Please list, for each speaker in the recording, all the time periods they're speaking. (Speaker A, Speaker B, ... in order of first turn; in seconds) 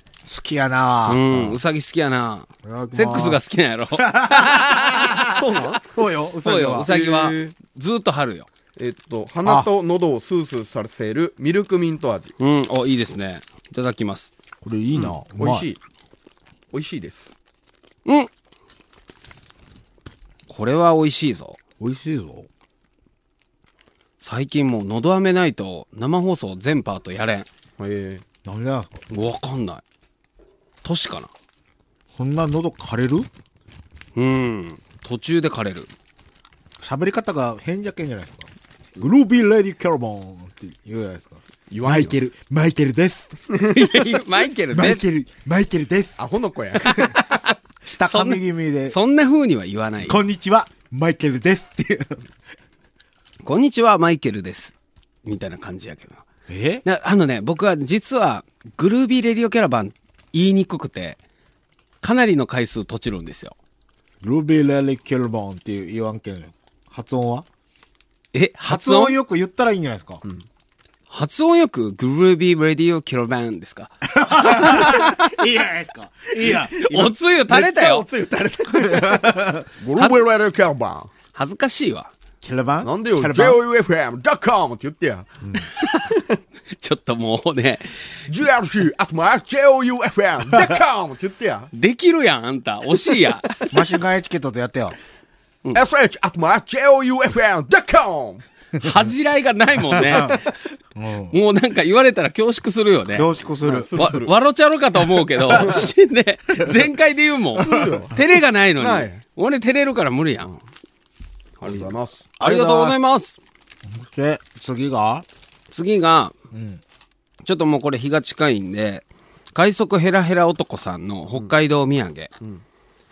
Speaker A: 0.2-1.6, 2.6-3.4, 4.0-6.9, 14.6-15.7, 21.8-22.5, 28.4-29.0, 32.1-33.3, 36.8-43.4, 44.7-46.2, 46.8-49.0, 50.1-52.2, 56.5-56.8, 64.2-67.5, 68.7-70.2, 74.1-77.2, 78.7-79.7, 82.4-83.6, 93.7-95.0, 100.0-100.4, 101.0-101.4, 103.1-104.2, 112.4-113.0, 113.9-115.2, 116.5-116.8
Speaker B: 1.1-5.2, 6.4-8.5, 12.4-14.3, 20.5-21.6, 24.2-27.5, 29.1-29.8, 30.8-31.3, 34.2-35.9, 43.7-45.0, 48.0-50.2, 53.4-54.7, 55.2-56.2, 56.9-61.2, 62.0-63.5, 68.3-69.2, 71.1-75.3, 76.7-78.0, 81.3-82.1, 85.8-86.2, 86.7-87.9, 91.7-93.5, 98.8-100.5, 101.3-103.3, 103.9-110.5, 112.4-113.4, 115.7-116.3, 117.4-122.3
Speaker C: 5.3-5.9, 6.8-7.5, 8.8-12.4, 15.0-15.8, 16.7-17.4, 27.8-28.2, 41.7-42.3, 43.5-44.2, 46.2-47.1, 77.5-81.1, 82.8-86.2, 88.3-91.7, 95.7-98.4, 103.6-104.3, 105.5-105.9, 107.6-108.2, 108.8-109.2, 111.6-112.3